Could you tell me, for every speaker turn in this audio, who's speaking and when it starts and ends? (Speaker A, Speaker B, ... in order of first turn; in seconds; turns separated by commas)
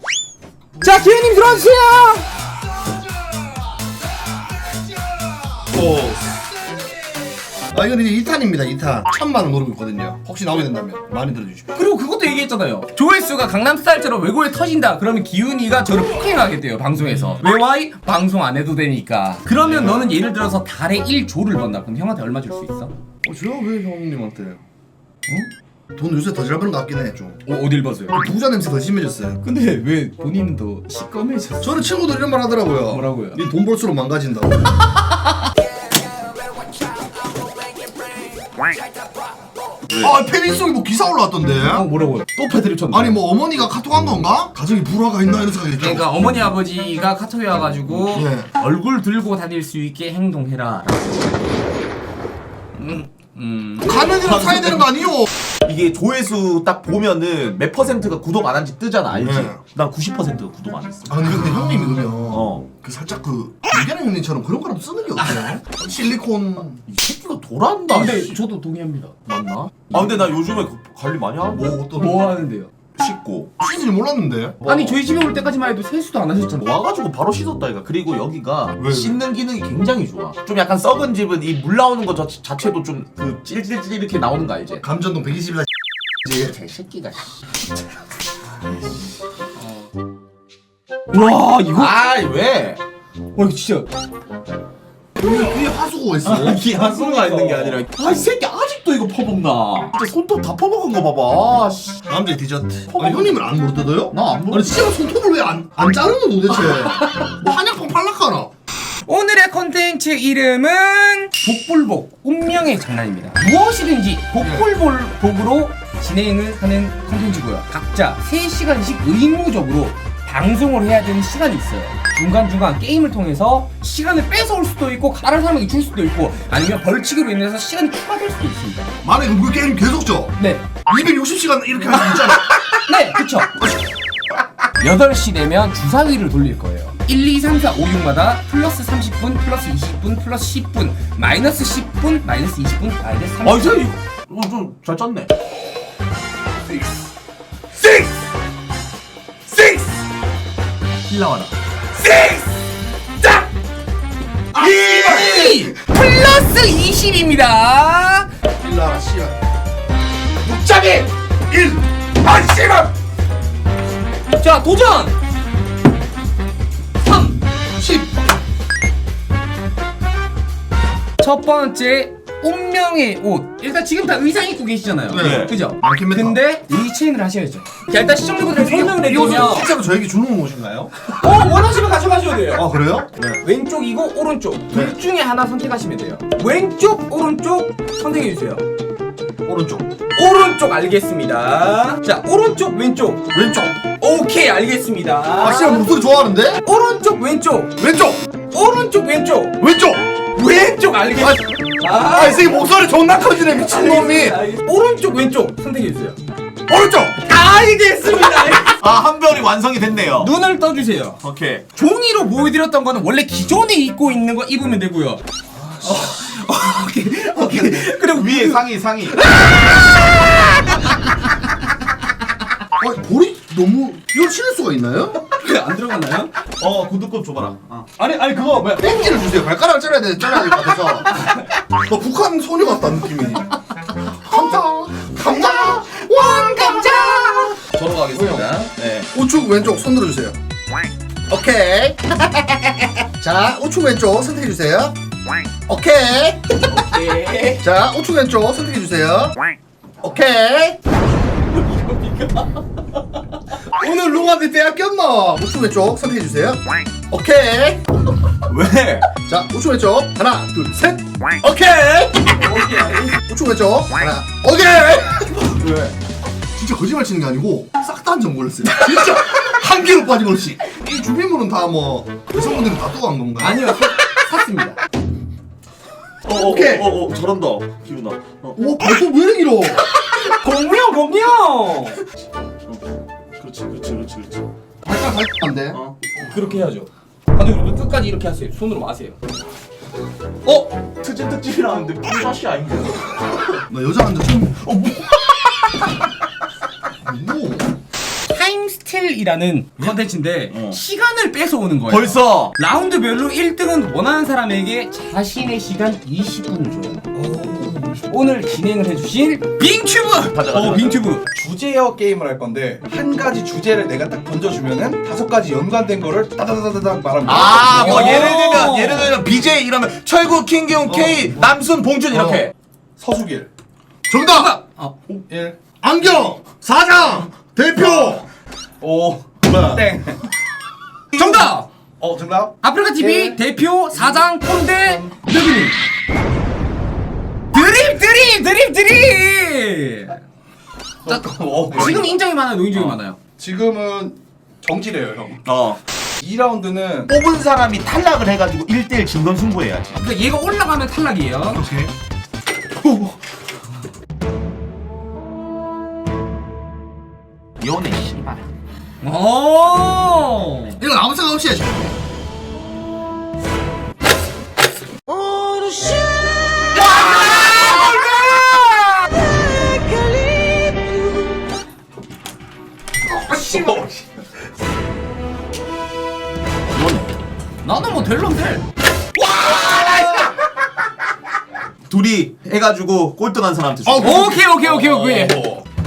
Speaker A: 0.8-2.3, Speaker B: 5.7-6.5, Speaker B: 7.7-11.7, Speaker A: 11.7-22.9, Speaker B: 19.6-20.1, Speaker B: 23.2-24.6, Speaker B: 26.0-27.4, Speaker A: 27.5-28.2, Speaker B: 28.1-29.4, Speaker A: 29.4-31.8, Speaker B: 31.6-34.7, Speaker A: 32.9-33.4, Speaker B: 39.9-41.9, Speaker A: 41.6-42.3, Speaker C: 42.4-43.1, Speaker B: 42.9-46.1, Speaker A: 45.8-51.3, Speaker B: 48.0-48.5, Speaker A: 52.8-54.0, Speaker B: 53.8-55.3, Speaker C: 54.0-55.1, Speaker C: 55.6-61.6, Speaker B: 59.2-59.6, Speaker B: 61.1-66.8, Speaker C: 62.3-62.6, Speaker C: 66.9-68.4, Speaker A: 67.9-69.1, Speaker C: 69.3-71.8, Speaker B: 71.5-72.3, Speaker A: 71.9-72.7, Speaker C: 73.0-73.5, Speaker B: 73.6-74.6, Speaker A: 74.7-76.7, Speaker C: 76.6-84.8, Speaker B: 78.8-79.2, Speaker B: 84.8-85.7, Speaker C: 86.3-87.2, Speaker A: 89.6-89.9, Speaker A: 91.1-91.9, Speaker C: 91.3-92.8, Speaker A: 93.3-93.9, Speaker B: 95.2-96.7, Speaker C: 96.2-102.0, Speaker A: 96.6-97.8, Speaker B: 102.1-108.5, Speaker C: 102.9-103.4, Speaker C: 104.1-104.8, Speaker A: 109.0-128.9, Speaker B: 114.4-114.7, Speaker B: 129.0-130.3, Speaker A: 130.4-130.7, Speaker B: 130.9-132.6, Speaker A: 132.9-133.5, Speaker A: 134.8-143.9, Speaker C: 143.4-145.3, Speaker A: 149.5-149.9, Speaker C: 151.1-151.5, Speaker A: 151.9-152.5, Speaker A: 153.2-153.5, Speaker A: 154.5-158.3, Speaker B: 154.8-155.7, Speaker B: 158.6-159.4, Speaker A: 160.4-161.1, Speaker B: 161.5-162.8, Speaker A: 164.3-165.2, Speaker A: 167.0-167.4, Speaker B: 167.8-168.1, Speaker A: 171.2-179.7, Speaker B: 175.1-176.4, Speaker C: 175.2-175.5, Speaker B: 178.6-181.0, Speaker A: 181.1-182.7, Speaker B: 182.5-183.4, Speaker A: 183.4-188.6, Speaker B: 189.5-189.9, Speaker A: 190.1-193.3, Speaker B: 193.3-193.8, Speaker A: 194.0-195.9, Speaker B: 195.4-196.6, Speaker A: 196.6-197.8, Speaker B: 197.8-198.2, Speaker A: 198.5-199.6, Speaker B: 199.6-200.0, Speaker A: 200.4-202.6, Speaker B: 201.2-201.4, Speaker B: 202.0-204.4, Speaker A: 203.5-206.2, Speaker B: 206.7-207.2, Speaker A: 207.2-208.8, Speaker C: 208.8-210.3, Speaker A: 210.2-211.2, Speaker C: 211.2-211.6, Speaker A: 211.8-215.2, Speaker B: 215.6-215.9, Speaker A: 215.8-218.7, Speaker C: 217.4-219.2, Speaker A: 219.3-219.7, Speaker B: 222.8-225.2, Speaker A: 225.3-226.3, Speaker C: 226.6-227.9, Speaker B: 228.0-231.2, Speaker B: 231.7-233.5, Speaker B: 234.1-237.1, Speaker A: 235.2-237.6, Speaker C: 237.7-239.1, Speaker B: 238.1-240.4, Speaker B: 241.3-245.0, Speaker B: 245.7-246.4, Speaker A: 246.7-247.6, Speaker B: 247.6-249.4, Speaker B: 250.0-250.8, Speaker B: 253.7-257.9, Speaker C: 258.5-259.1, Speaker B: 259.2-262.4, Speaker A: 262.4-263.2, Speaker B: 263.2-265.4, Speaker C: 265.5-265.9, Speaker B: 266.6-273.8, Speaker A: 273.4-274.8, Speaker C: 276.2-278.6, Speaker B: 276.3-276.9, Speaker B: 278.6-279.8, Speaker A: 280.0-282.0, Speaker C: 283.4-284.5, Speaker B: 284.8-285.8, Speaker A: 286.2-289.2, Speaker C: 290.4-293.6, Speaker B: 293.7-294.6, Speaker C: 294.6-295.7, Speaker B: 297.0-297.7, Speaker A: 298.3-307.0, Speaker C: 300.5-300.8, Speaker C: 301.9-302.6, Speaker D: 307.1-308.0, Speaker A: 308.1-311.3, Speaker C: 310.2-311.0, Speaker D: 310.5-318.4, Speaker C: 317.2-322.5, Speaker A: 317.6-319.2, Speaker B: 320.9-321.4, Speaker B: 322.1-322.5, Speaker D: 323.0-323.5, Speaker B: 324.1-324.6, Speaker A: 324.3-325.0, Speaker D: 325.1-325.6, Speaker B: 325.8-328.3, Speaker D: 327.8-328.2, Speaker D: 328.8-330.2, Speaker B: 329.5-329.8, Speaker C: 329.5-329.8, Speaker A: 331.1-331.7, Speaker D: 332.0-333.4, Speaker A: 332.6-335.8, Speaker A: 337.5-340.2, Speaker D: 341.1-342.1, Speaker A: 341.1-343.2, Speaker D: 343.4-345.4, Speaker C: 345.5-345.8, Speaker D: 346.2-347.1, Speaker C: 347.1-350.0, Speaker A: 350.0-351.6, Speaker B: 351.6-351.9, Speaker C: 357.6-358.5, Speaker A: 359.0-360.8, Speaker B: 360.8-361.9, Speaker A: 365.1-369.2, Speaker A: 370.0-370.9, Speaker A: 373.1-373.9, Speaker C: 373.5-373.9, Speaker C: 376.7-377.2, Speaker A: 377.6-378.6, Speaker A: 379.2-380.3, Speaker C: 381.9-385.5, Speaker B: 383.9-384.5, Speaker A: 384.0-385.5